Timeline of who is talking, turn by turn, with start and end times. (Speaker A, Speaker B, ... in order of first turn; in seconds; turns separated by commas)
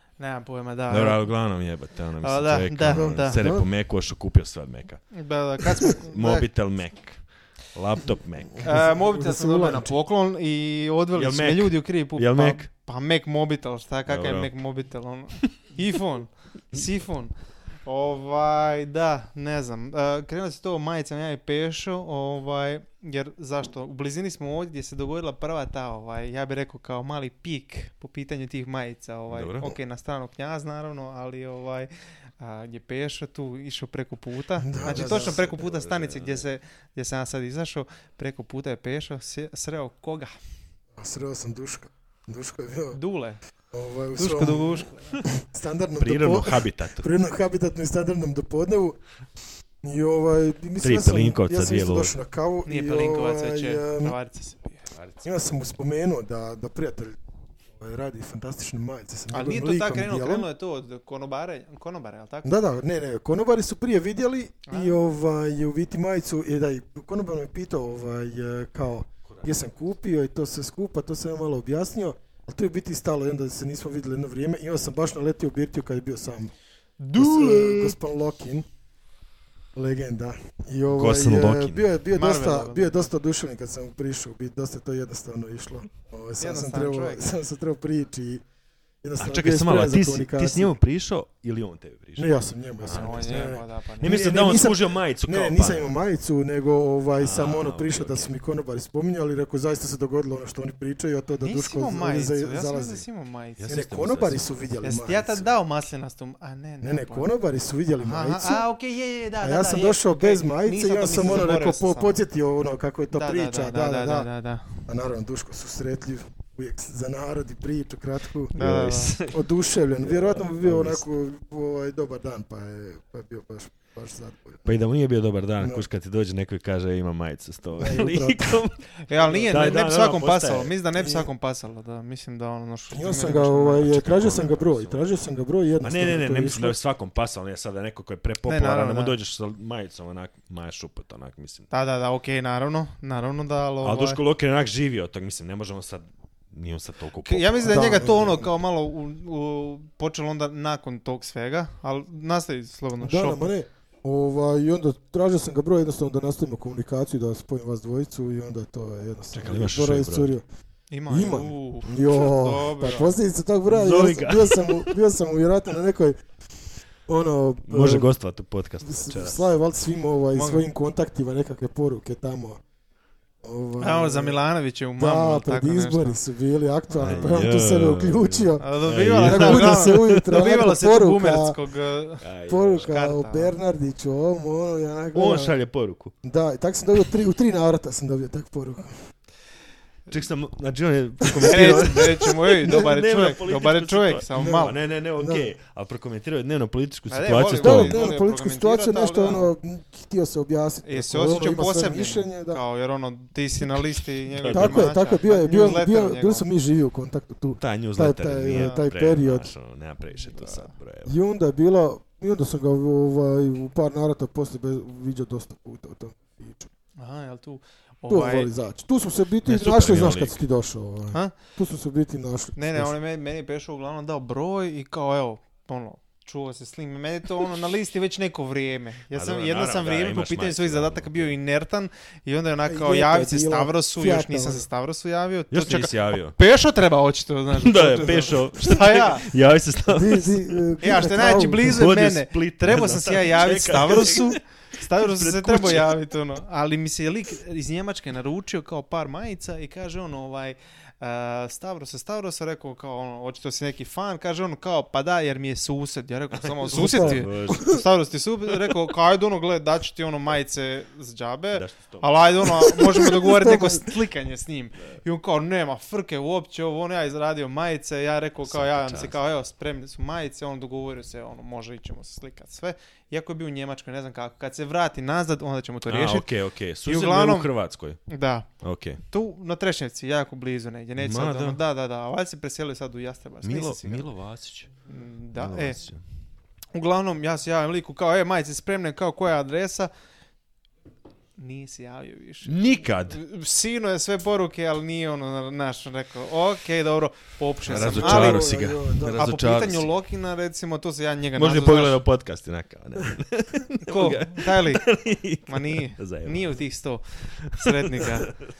Speaker A: 0.2-1.2, Speaker B: 0.9-5.0, Speaker A: 2.2-3.4, Speaker C: 2.9-3.6, Speaker A: 5.1-6.5, Speaker B: 5.8-8.7, Speaker C: 8.6-9.9, Speaker A: 8.6-17.3, Speaker B: 11.2-12.7, Speaker B: 14.1-14.5, Speaker A: 17.9-40.3, Speaker B: 29.3-29.6, Speaker C: 34.6-35.5, Speaker B: 34.8-36.5, Speaker C: 41.0-43.0, Speaker A: 42.9-43.4, Speaker C: 43.7-49.0, Speaker A: 44.1-45.2, Speaker B: 46.0-47.1, Speaker C: 49.8-54.1, Speaker B: 50.8-52.1, Speaker A: 52.6-54.9, Speaker B: 54.9-55.2, Speaker C: 55.2-57.2, Speaker C: 57.8-60.5, Speaker A: 59.3-62.5, Speaker C: 62.4-76.5, Speaker A: 64.7-65.0, Speaker A: 77.0-78.0, Speaker C: 77.1-78.7, Speaker C: 79.7-88.4, Speaker B: 80.9-81.8, Speaker A: 82.1-83.1, Speaker A: 86.4-87.3, Speaker C: 89.0-90.8, Speaker B: 89.2-92.3, Speaker C: 92.2-103.0, Speaker B: 92.8-95.9, Speaker A: 92.9-94.2, Speaker B: 97.2-98.3, Speaker A: 101.4-103.7, Speaker B: 103.6-104.5, Speaker C: 103.7-105.5, Speaker A: 104.8-107.2, Speaker C: 106.8-108.6, Speaker A: 108.0-112.2, Speaker C: 109.4-114.3, Speaker A: 113.1-114.6, Speaker C: 114.9-124.6, Speaker A: 118.5-119.2, Speaker B: 118.5-119.4, Speaker B: 120.0-121.0, Speaker B: 124.6-128.8, Speaker C: 127.8-128.6, Speaker A: 129.1-133.9, Speaker C: 129.2-129.8, Speaker B: 129.5-130.7, Speaker C: 130.9-131.3, Speaker C: 132.9-136.8, Speaker B: 133.8-135.1, Speaker B: 135.8-141.7, Speaker A: 138.4-139.1, Speaker A: 141.7-144.2, Speaker B: 143.8-148.3, Speaker A: 147.2-153.5, Speaker C: 147.6-148.5, Speaker C: 153.0-160.4, Speaker B: 159.3-160.3, Speaker A: 160.9-163.2, Speaker C: 161.1-166.2, Speaker B: 163.7-164.9, Speaker C: 167.1-168.1, Speaker B: 167.7-169.4, Speaker C: 168.8-172.6, Speaker A: 170.3-170.6, Speaker C: 173.4-174.4, Speaker A: 173.8-176.2, Speaker C: 175.0-181.6, Speaker B: 176.9-180.2, Speaker A: 178.6-182.2, Speaker B: 182.2-183.0, Speaker C: 182.5-185.5, Speaker A: 182.8-183.6, Speaker B: 185.1-186.1, Speaker C: 186.2-188.9, Speaker B: 190.1-198.0, Speaker C: 191.2-192.9, Speaker A: 191.3-194.7, Speaker C: 194.3-195.5, Speaker A: 197.1-199.5, Speaker C: 197.6-202.6, Speaker A: 200.8-206.4, Speaker B: 204.3-204.9, Speaker C: 204.5-209.5, Speaker B: 207.6-211.1, Speaker A: 208.5-208.8, Speaker A: 210.2-210.7, Speaker C: 211.1-216.7, Speaker A: 217.0-218.5, Speaker C: 218.1-222.9, Speaker B: 219.4-220.4, Speaker A: 222.6-239.2, Speaker B: 229.1-231.3, Speaker C: 232.7-234.7, Speaker B: 235.5-236.3, Speaker B: 237.6-240.4, Speaker C: 237.9-238.5, Speaker C: 239.9-241.8, Speaker A: 240.8-276.3, Speaker B: 241.7-246.0, Speaker B: 256.4-257.8, Speaker C: 256.7-257.8, Speaker B: 261.5-262.5, Speaker C: 262.7-263.8, Speaker B: 268.4-269.2, Speaker B: 275.9-278.0, Speaker A: 276.8-277.5, Speaker A: 278.1-278.5, Speaker B: 278.6-279.0, Speaker A: 279.1-284.1, Speaker B: 281.0-281.6, Speaker B: 283.4-284.7, Speaker A: 284.9-285.8, Speaker B: 285.3-286.0, Speaker A: 286.7-289.9, Speaker A: 291.4-292.6, Speaker B: 292.4-293.2, Speaker A: 293.1-298.5, Speaker B: 297.7-299.9, Speaker C: 297.7-299.3, Speaker A: 299.2-302.0, Speaker B: 301.4-306.6, Speaker A: 303.8-304.9, Speaker A: 305.5-308.3, Speaker B: 307.5-308.4